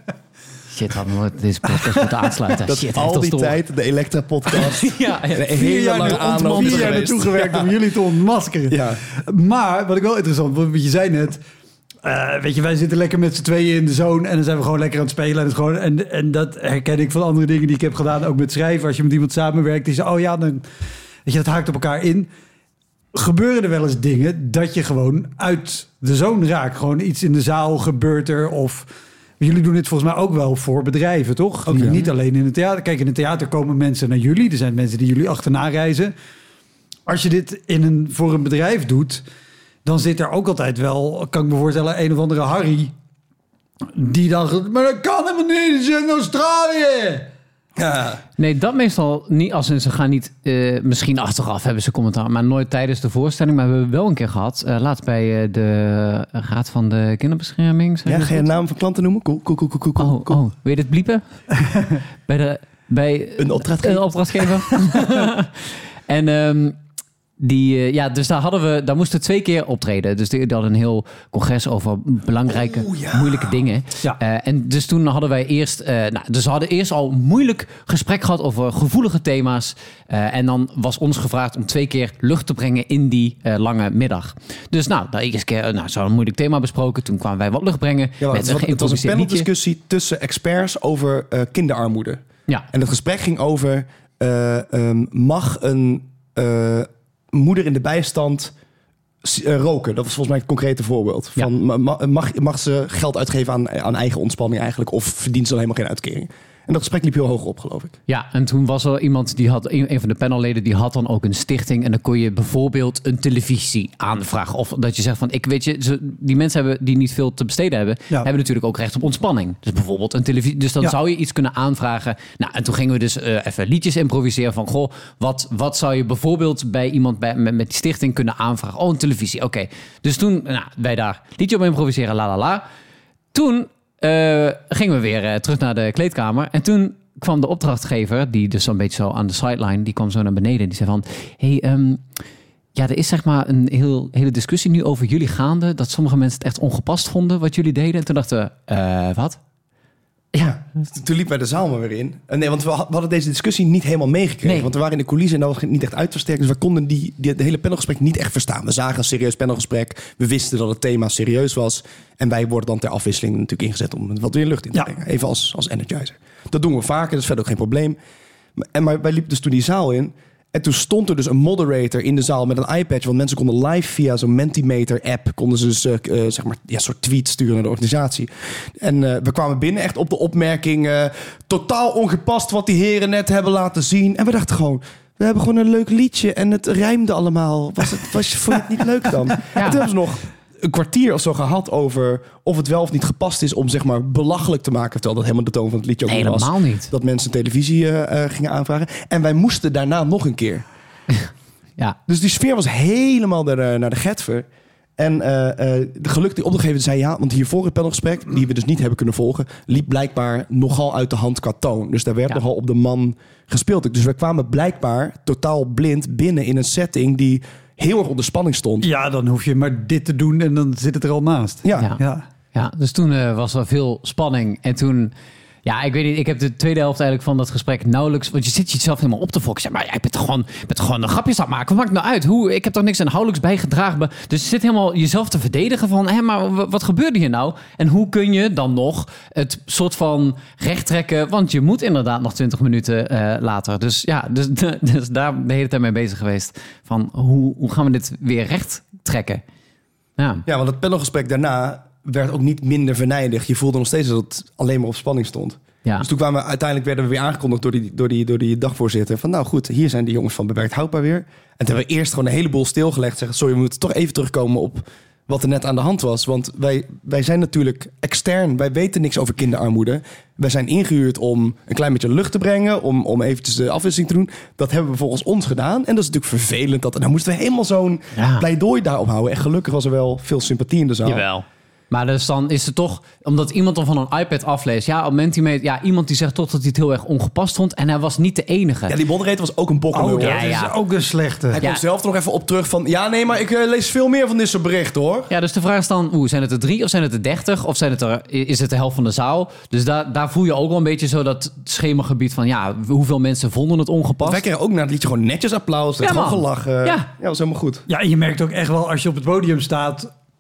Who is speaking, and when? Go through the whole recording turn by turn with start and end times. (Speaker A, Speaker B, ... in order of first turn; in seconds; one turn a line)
Speaker A: 0.7-3.5
Speaker B: 2.7-7.8
Speaker A: 4.5-7.2
Speaker C: 5.5-11.4
Speaker B: 8.7-9.0
Speaker C: 12.0-20.7
Speaker C: 21.3-22.3
Speaker C: 23.1-28.9
Speaker C: 29.4-36.1
Speaker B: 31.7-32.1
Speaker C: 37.1-39.2
Speaker C: 39.9-42.9
Speaker C: 43.9-47.3
Speaker B: 47.8-48.2
Speaker A: 48.4-58.5
Speaker B: 58.0-60.4
Speaker A: 60.0-66.8
Speaker B: 63.4-64.5
Speaker A: 67.4-89.5
Speaker B: 72.5-73.6
Speaker B: 88.2-98.5
Speaker B: 99.2-107.9
Speaker A: 108.1-132.6
Speaker A: 133.3-142.0
Speaker A: 142.8-149.4
Speaker B: 150.3-168.0
Speaker A: 154.4-154.7
Speaker B: 168.6-200.6
Speaker A: 189.6-189.9
Speaker A: 196.1-196.9
Speaker A: 201.1-202.0
Speaker B: 202.1-204.5
Speaker B: 205.0-218.9
Speaker C: 218.8-222.2
Speaker B: 221.6-221.9
Speaker A: 222.5-225.1
Speaker A: 225.7-249.4
Speaker A: 250.2-250.5
Speaker B: 250.5-281.2
Speaker A: 278.2-278.5
Speaker A: 281.1-289.0
Speaker B: 288.9-290.5
Speaker C: 289.9-291.6
Speaker A: 290.2-290.7
Speaker B: 291.5-295.3
Speaker A: 295.3-304.4
Speaker B: 304.2-307.9
Speaker A: 306.0-307.1
Speaker C: 307.9-310.1